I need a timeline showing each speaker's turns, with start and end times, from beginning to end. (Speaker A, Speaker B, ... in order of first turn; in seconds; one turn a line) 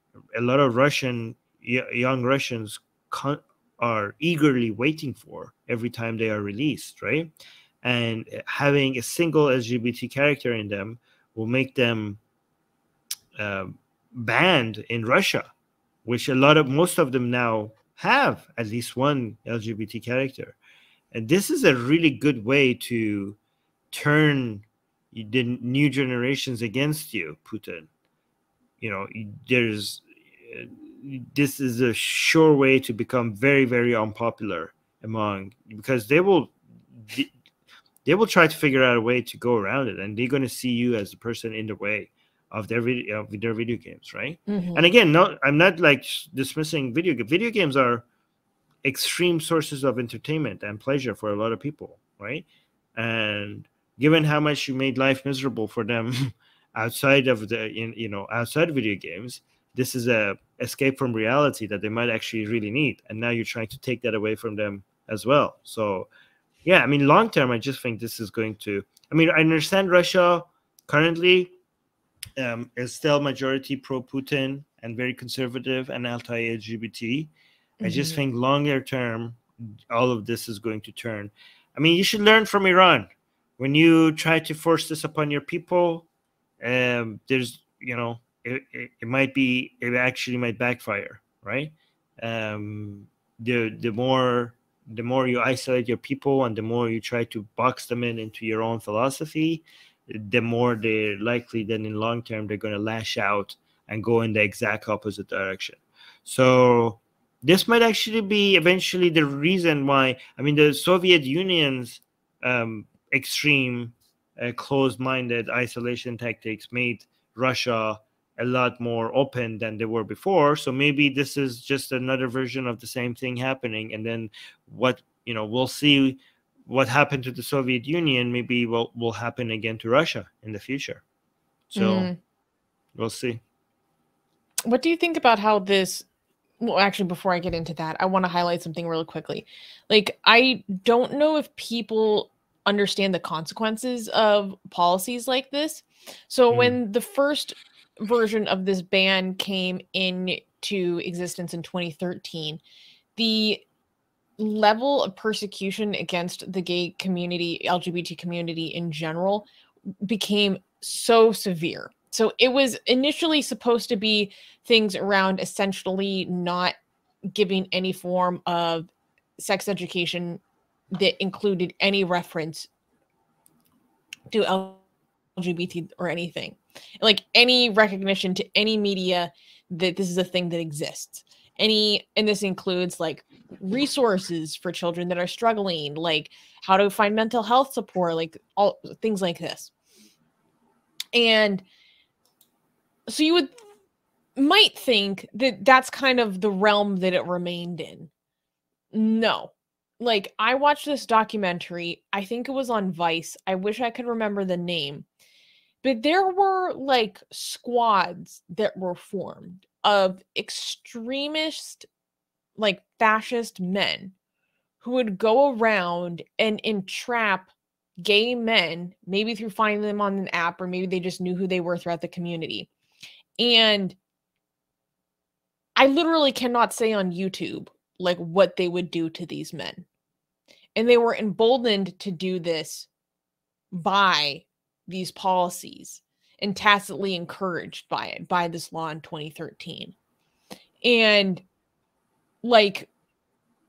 Speaker A: 0.3-12.2
Speaker A: 13.4-15.5
Speaker A: 16.0-20.6
Speaker A: 21.1-23.4
Speaker A: 23.9-27.9
Speaker A: 28.8-37.3
Speaker A: 38.0-48.0
Speaker B: 44.5-44.8
Speaker A: 48.8-66.1
Speaker A: 66.6-71.5
Speaker A: 72.4-77.3
Speaker B: 77.8-78.2
Speaker A: 77.8-86.1
Speaker A: 86.6-131.0
Speaker A: 131.7-132.1
Speaker B: 131.8-132.2
Speaker A: 132.9-133.4
Speaker B: 134.7-136.1
Speaker B: 136.6-152.6
Speaker A: 146.5-146.8
Speaker B: 153.2-153.6
Speaker B: 154.4-159.5
Speaker B: 160.0-166.7
Speaker B: 167.3-170.4
Speaker B: 170.9-172.7
Speaker B: 174.3-174.8
Speaker B: 175.3-189.7
Speaker B: 191.1-191.6
Speaker B: 193.1-193.5
Speaker B: 194.3-198.1
Speaker B: 198.9-205.1
Speaker B: 205.8-211.9
Speaker B: 212.6-214.1
Speaker B: 214.8-222.7
Speaker B: 223.4-224.0
Speaker B: 225.8-229.8
Speaker B: 230.8-232.9
Speaker B: 233.7-239.9
Speaker B: 240.8-241.4
Speaker B: 242.4-242.9